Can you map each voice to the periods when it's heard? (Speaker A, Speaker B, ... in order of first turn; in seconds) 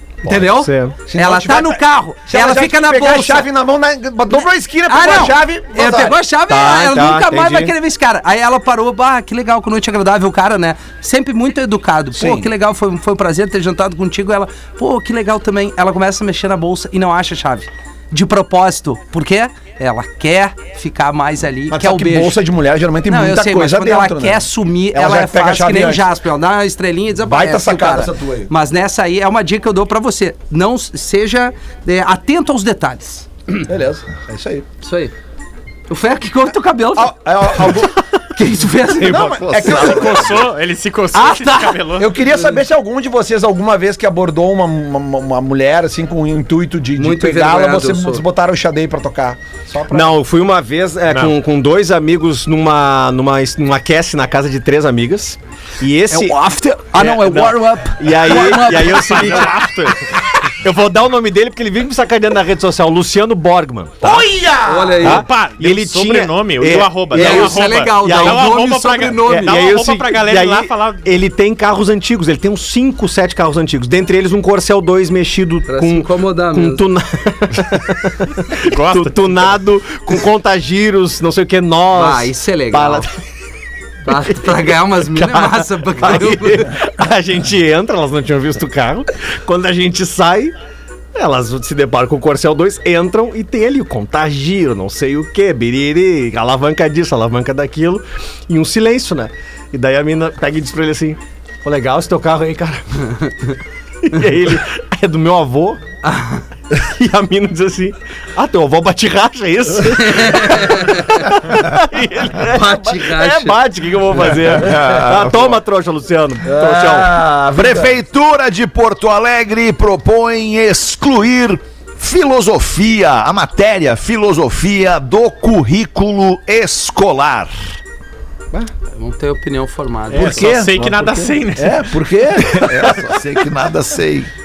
Speaker A: 0.2-3.5, 4.9-22.4, 23.1-33.6, 34.8-35.1, 35.9-39.8, 41.1-41.8, 47.0-48.2, 56.1-59.5, 64.7-65.2, 67.1-69.6, 75.7-76.8, 81.9-83.1, 84.1-86.7, 106.0-106.4, 110.0-111.4, 112.4-113.6, 128.9-130.6
Speaker B: 0.3-1.0, 6.5-7.7, 49.9-56.4, 56.9-59.7, 60.6-64.3, 65.0-68.6, 69.2-83.1, 84.3-90.5, 91.2-103.3, 104.0-105.8, 106.7-117.2, 130.7-131.3
Speaker C: 1.1-6.2, 12.2-12.5, 21.7-26.1, 27.2-28.5, 33.6-34.7, 37.0-38.0, 39.0-40.4, 42.0-50.2, 64.0-65.1, 116.4-118.0, 130.2-131.0, 131.5-133.1
Speaker D: 39.0-40.5, 114.3-115.6, 117.5-127.8, 132.5-134.3
Speaker E: 39.6-42.2, 58.7-60.1, 65.0-71.1, 78.7-79.5, 130.1-132.4